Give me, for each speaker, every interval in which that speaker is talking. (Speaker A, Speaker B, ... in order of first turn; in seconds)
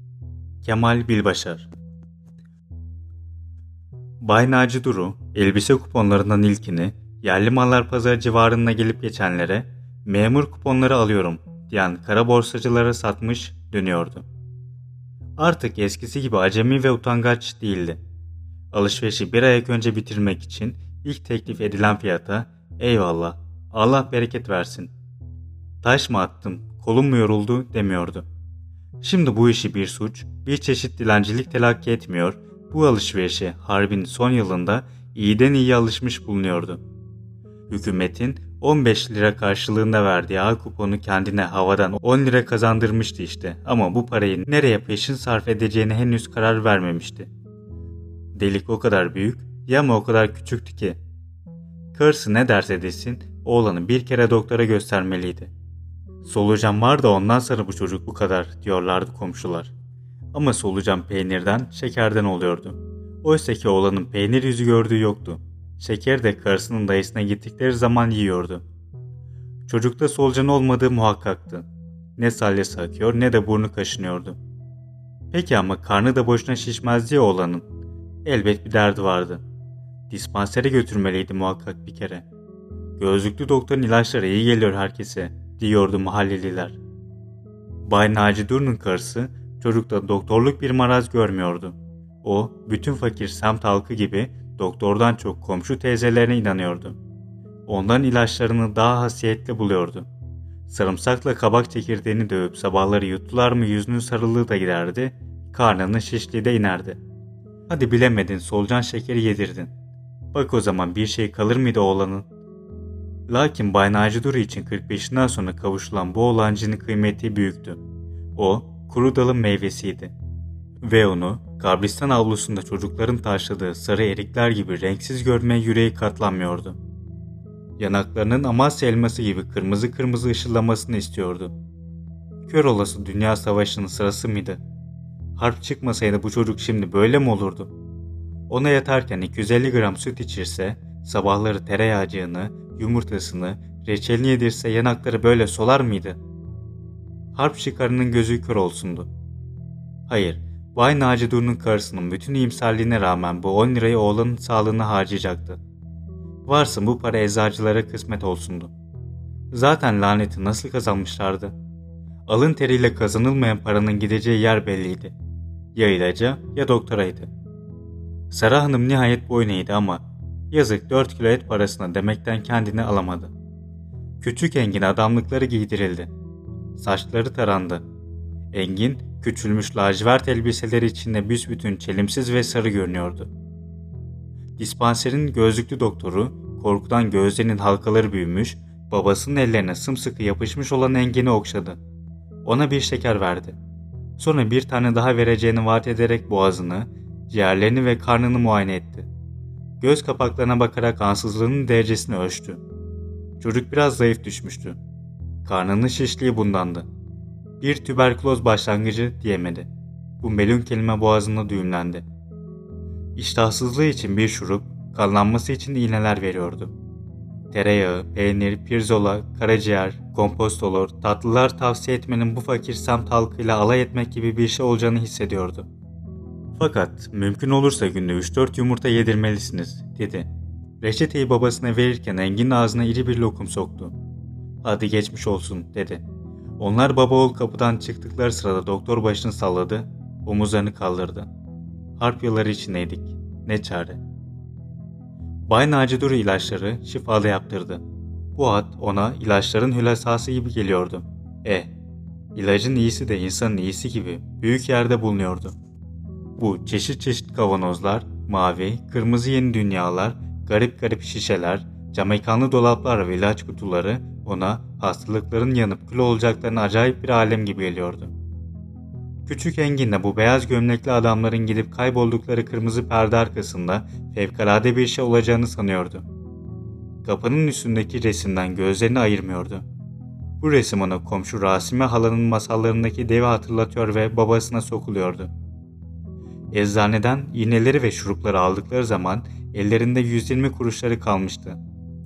Speaker A: 0.6-1.7, 4.2-14.2, 15.4-18.0, 18.7-24.9, 25.8-28.2, 29.0-36.8, 37.7-47.3, 48.3-51.0, 51.9-55.5, 56.2-59.7, 60.3-68.6, 69.7-71.7, 72.2-74.4, 75.3-77.6, 78.2-79.4, 80.1-82.2, 83.0-86.8, 87.8-97.0, 97.7-100.1, 100.7-107.0, 107.7-109.7, 110.3-112.2, 113.3-117.8, 118.3-120.1, 120.8-126.8, 127.8-131.5, 132.4-134.6, 135.4-137.7, 138.5-146.2, 147.3-149.1, 150.1-155.6, 156.4-158.7, 159.5-161.5, 162.3-165.1, 165.7-167.3, 168.3-173.3, 174.2-176.1, 176.7-177.8, 178.5-183.3, 184.6-191.8, 192.4-193.6, 194.2-199.1, 199.8-202.6, 203.4-204.8, 205.4-206.9, 207.6-209.7, 210.2-212.0, 213.2-216.7, 217.5-225.7, 226.6-230.3, 230.8-233.9, 234.6-236.0, 236.6-241.3, 242.0-244.0, 245.5-247.8, 248.3-251.7, 252.3-255.5, 256.4-268.1, 269.2-276.0, 277.0-279.6, 280.4-285.3, 286.5-291.6